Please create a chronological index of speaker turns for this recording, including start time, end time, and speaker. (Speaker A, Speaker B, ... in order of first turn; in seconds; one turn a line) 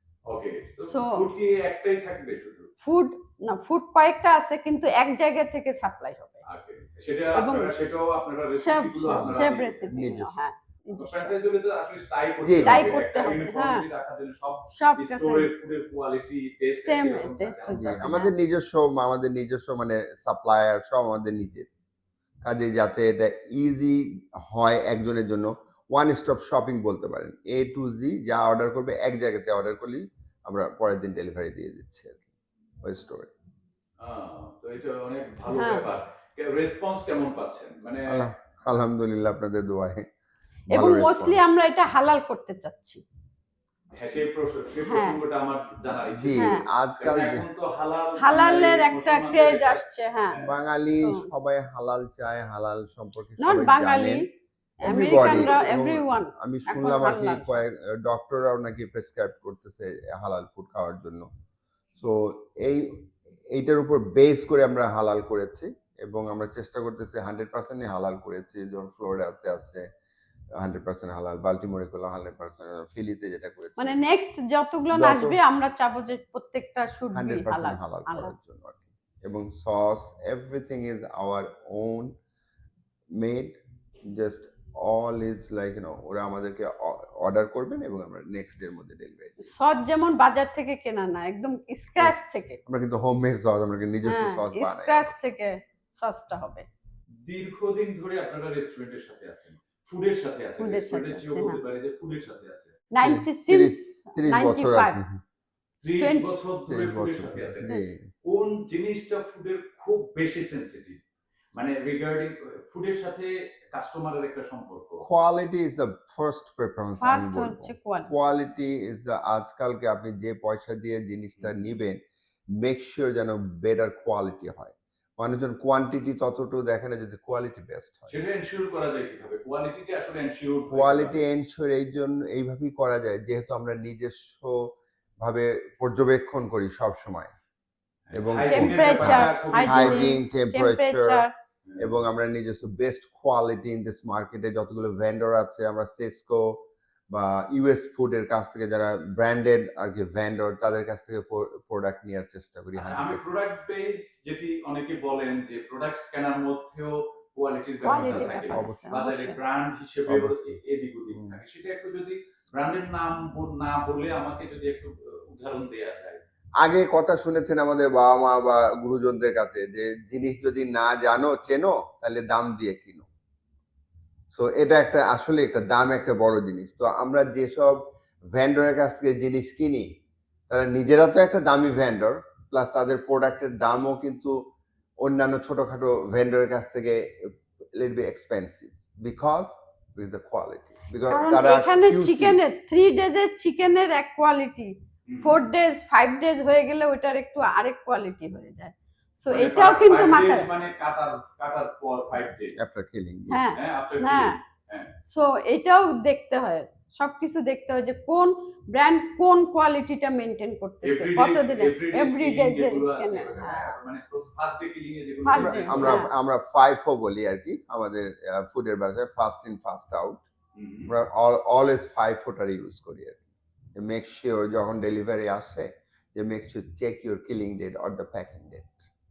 Speaker A: 0.3-2.7
Speaker B: 0.8-1.2
Speaker B: 2.8-6.4
Speaker A: 6.5-9.8
Speaker B: 7.3-7.7
Speaker B: 8.5-11.3
Speaker C: 9.1-10.4
Speaker A: 10.9-18.1
Speaker C: 12.4-13.1
Speaker B: 12.6-13.8
Speaker B: 14.7-15.5
Speaker B: 16.8-18.3
Speaker C: 17.7-21.7
Speaker C: 22.4-32.3
Speaker C: 32.8-33.3
Speaker A: 34.0-38.3
Speaker B: 35.5-35.9
Speaker C: 38.1-40.0
Speaker B: 40.7-43.0
Speaker C: 40.7-41.5
Speaker A: 44.0-50.5
Speaker B: 44.8-45.2
Speaker C: 46.1-47.5
Speaker B: 46.4-46.6
Speaker B: 48.2-51.3
Speaker C: 50.4-54.3
Speaker B: 53.4-54.2
Speaker B: 54.8-57.6
Speaker C: 54.8-61.3
Speaker A: 54.8-55.5
Speaker C: 62.0-69.8
Speaker C: 70.6-74.0
Speaker B: 73.8-78.3
Speaker C: 74.9-75.4
Speaker C: 77.1-82.1
Speaker C: 83.2-83.6
Speaker C: 84.1-89.4
Speaker B: 89.4-92.6
Speaker C: 92.0-95.1
Speaker B: 94.0-96.7
Speaker A: 97.2-102.8
Speaker B: 100.6-101.6
Speaker B: 102.9-105.0
Speaker C: 103.0-105.2
Speaker A: 105.8-107.7
Speaker B: 105.9-106.3
Speaker C: 106.7-108.0
Speaker A: 108.2-111.0
Speaker A: 111.5-115.0
Speaker C: 115.0-122.0
Speaker B: 117.0-118.1
Speaker C: 122.5-128.2
Speaker A: 128.1-131.2
Speaker C: 130.7-137.3
Speaker A: 138.1-140.1
Speaker C: 138.1-141.2
Speaker B: 138.5-141.3
Speaker C: 141.8-153.2
Speaker A: 152.7-166.2
Speaker B: 157.8-159.4
Speaker C: 157.9-159.1
Speaker C: 160.1-160.6
Speaker C: 161.1-161.4
Speaker C: 166.6-173.1
Speaker C: 174.3-179.9
Speaker C: 180.5-184.4
Speaker C: 185.0-192.4
Speaker B: 191.1-200.5
Speaker A: 195.1-195.4
Speaker A: 199.3-202.7
Speaker C: 202.6-203.4
Speaker B: 203.3-204.4
Speaker A: 203.5-204.9
Speaker B: 205.1-213.7
Speaker A: 210.8-216.0
Speaker C: 213.4-213.7
Speaker B: 215.2-216.1
Speaker C: 215.4-220.2
Speaker A: 220.6-220.9
Speaker C: 220.9-228.9